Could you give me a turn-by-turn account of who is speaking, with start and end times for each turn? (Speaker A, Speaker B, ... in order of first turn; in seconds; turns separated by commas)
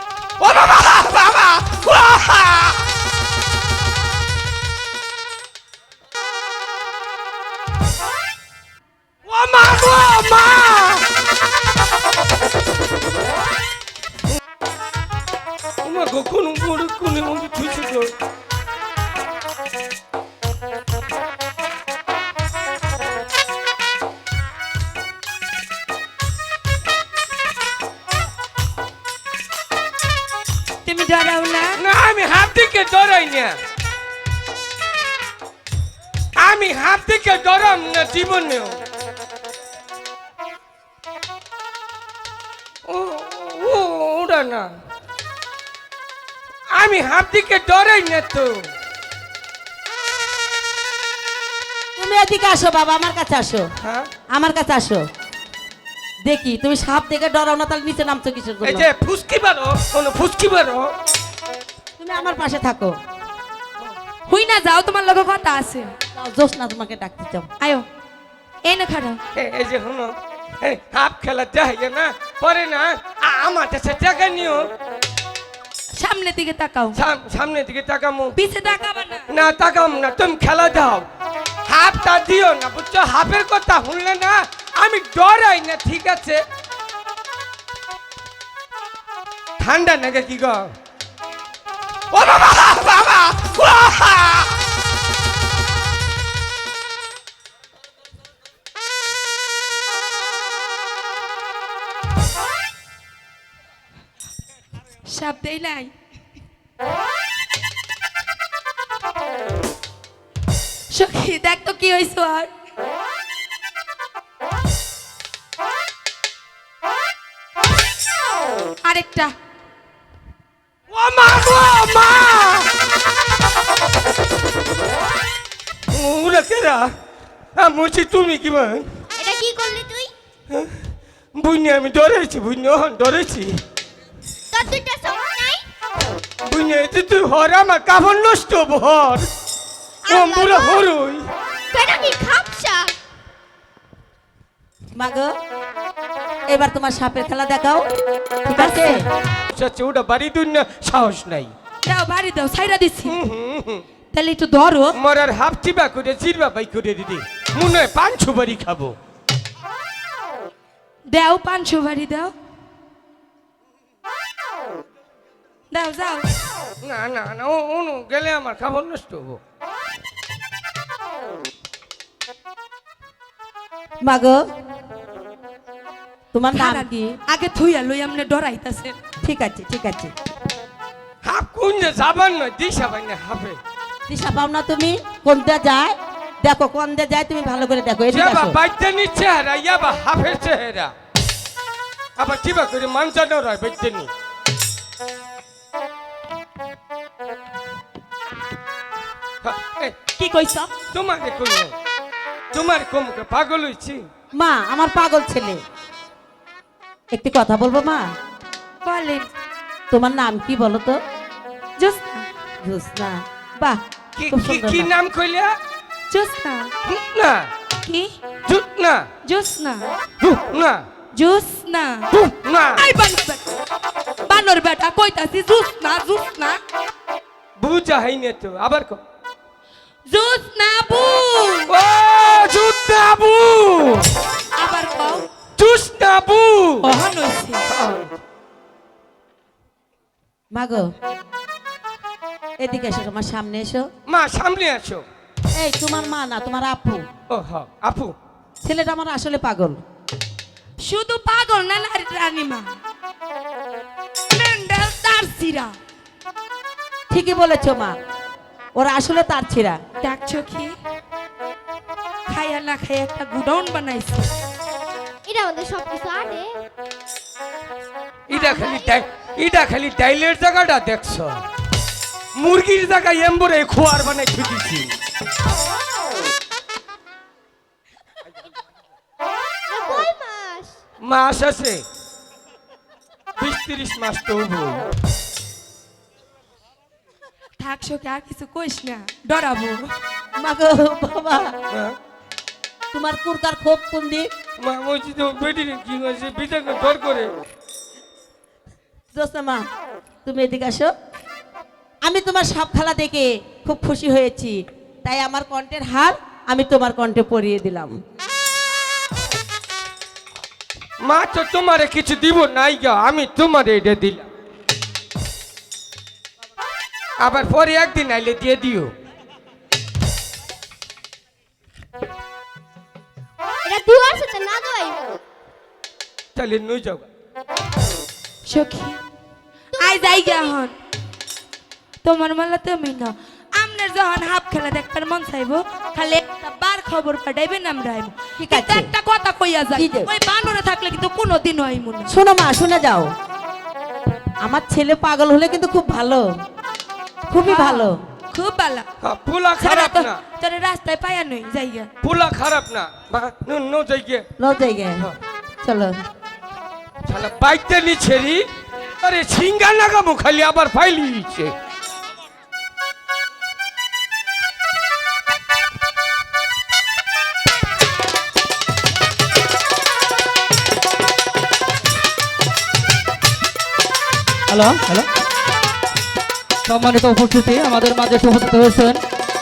Speaker A: 0.4-2.8, Speaker A: 9.3-11.1, Speaker A: 15.8-18.1, Speaker B: 30.8-31.8, Speaker A: 31.8-33.5, Speaker A: 36.4-38.8, Speaker A: 42.9-44.7, Speaker A: 46.7-48.7, Speaker C: 52.0-53.6, Speaker A: 53.8-54.1, Speaker C: 54.3-55.0, Speaker C: 56.2-58.9, Speaker A: 58.6-60.9, Speaker C: 62.0-62.9, Speaker B: 64.3-65.9, Speaker C: 66.2-67.5, Speaker B: 67.6-67.8, Speaker B: 68.6-69.2, Speaker A: 69.3-74.7, Speaker B: 76.0-77.0, Speaker A: 76.9-78.3, Speaker B: 78.3-79.3, Speaker A: 79.3-81.0, Speaker A: 81.7-86.4, Speaker A: 89.6-90.7, Speaker A: 92.1-94.5, Speaker B: 105.0-105.9, Speaker B: 110.9-112.5, Speaker B: 118.8-119.3, Speaker A: 120.9-122.7, Speaker A: 125.9-126.9, Speaker A: 127.6-128.9, Speaker D: 129.2-130.1, Speaker A: 130.5-130.8, Speaker A: 131.3-133.6, Speaker D: 134.5-135.7, Speaker A: 136.4-139.3, Speaker D: 140.1-140.8, Speaker A: 140.1-141.3, Speaker D: 141.7-142.9, Speaker C: 144.9-145.3, Speaker C: 146.5-147.9, Speaker C: 148.4-149.1, Speaker B: 148.6-149.1, Speaker A: 149.5-151.5, Speaker B: 151.8-153.2, Speaker A: 153.1-153.8, Speaker B: 154.1-154.9, Speaker A: 154.9-158.9, Speaker B: 161.1-162.3, Speaker B: 165.7-166.3, Speaker A: 166.8-169.4, Speaker C: 174.0-174.4, Speaker C: 176.3-177.1, Speaker B: 176.5-178.9, Speaker C: 179.2-180.1, Speaker A: 181.2-183.6, Speaker C: 184.1-188.6, Speaker A: 188.1-190.9, Speaker A: 192.2-194.1, Speaker A: 199.4-200.0, Speaker B: 200.2-200.7, Speaker A: 200.9-201.7, Speaker A: 202.5-204.1, Speaker C: 204.3-205.6, Speaker C: 207.1-208.0, Speaker B: 208.8-209.3, Speaker C: 209.9-211.0, Speaker B: 211.8-212.2, Speaker C: 212.6-214.9, Speaker A: 214.2-215.6, Speaker B: 216.1-216.7, Speaker A: 216.8-217.5, Speaker B: 217.8-218.1, Speaker A: 218.4-219.1, Speaker B: 219.2-219.9, Speaker A: 220.2-220.8, Speaker B: 221.1-222.1, Speaker A: 222.1-222.8, Speaker B: 222.8-223.4, Speaker B: 224.3-226.6, Speaker A: 227.6-229.0, Speaker B: 230.1-231.7, Speaker A: 231.7-234.1, Speaker B: 234.6-235.3, Speaker A: 235.6-236.9, Speaker B: 236.8-237.7, Speaker A: 237.7-238.2, Speaker C: 240.5-240.9, Speaker C: 242.6-243.9, Speaker A: 244.1-245.1, Speaker C: 245.6-247.1, Speaker A: 247.3-248.2, Speaker C: 248.6-249.8, Speaker B: 250.8-252.7, Speaker B: 254.3-255.7, Speaker C: 257.1-257.9, Speaker C: 258.8-259.8, Speaker B: 260.0-260.7, Speaker B: 262.3-264.3, Speaker D: 265.2-266.6, Speaker A: 268.3-271.4, Speaker D: 268.3-269.0, Speaker A: 272.4-274.9, Speaker D: 279.7-280.8, Speaker A: 281.0-281.8, Speaker A: 283.4-284.9, Speaker B: 287.6-289.9, Speaker C: 290.4-291.6, Speaker A: 291.7-292.0, Speaker C: 292.9-294.3, Speaker A: 294.6-297.3, Speaker C: 299.1-299.6, Speaker C: 300.2-300.9, Speaker C: 302.1-307.9, Speaker A: 311.0-314.3, Speaker A: 317.2-318.9, Speaker D: 323.6-325.2, Speaker A: 326.3-327.1, Speaker B: 328.4-329.0, Speaker D: 329.7-330.5, Speaker B: 329.8-330.7, Speaker B: 332.0-342.1, Speaker C: 338.4-338.9, Speaker C: 339.7-340.1, Speaker C: 342.1-343.1, Speaker C: 344.4-346.3, Speaker C: 347.3-348.0, Speaker B: 347.4-348.9, Speaker A: 349.0-350.2, Speaker B: 349.6-351.9, Speaker A: 352.0-354.3, Speaker C: 354.4-355.1, Speaker C: 355.6-355.9, Speaker A: 357.1-358.5, Speaker A: 359.0-361.5, Speaker E: 374.5-375.1, Speaker E: 376.6-379.0